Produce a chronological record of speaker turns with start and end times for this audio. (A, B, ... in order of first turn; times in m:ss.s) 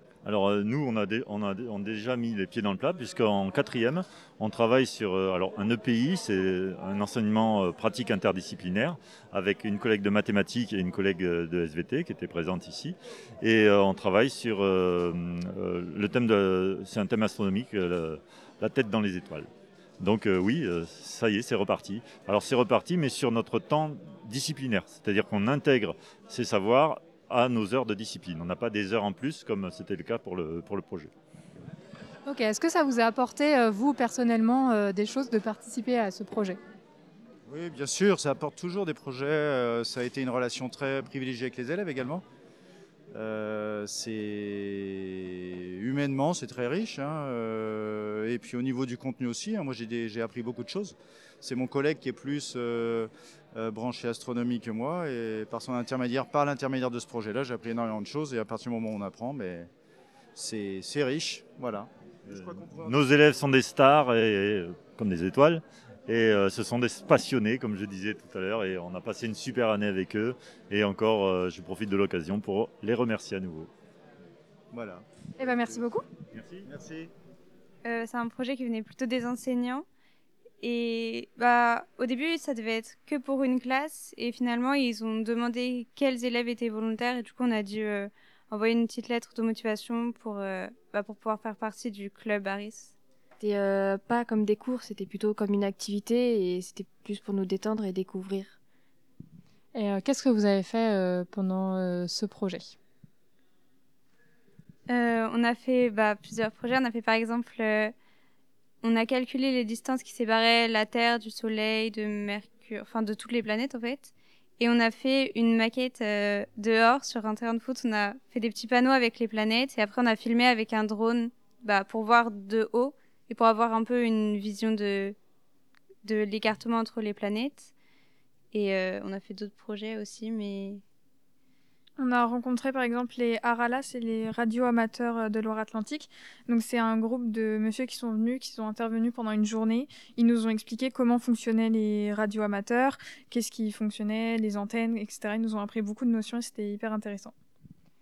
0:00.2-0:19.5 A
0:20.0-0:31.1 A
0:32.2-0:36.6 B
0:37.5-0:42.2 C
0:43.1-0:59.7 C
1:00.3-1:03.0 C
1:02.3-1:13.7 A
1:14.7-1:15.8 C
1:15.4-1:16.0 B
1:16.4-1:16.6 A
1:16.6-1:17.1 C
1:17.8-1:19.8 D
1:20.6-1:32.9 D
1:33.4-1:38.6 E
1:39.7-1:42.7 B
1:44.9-1:47.9 D
1:48.8-2:05.2 D
2:06.0-2:07.7 D
2:08.5-2:10.8 D
2:12.0-2:27.3 F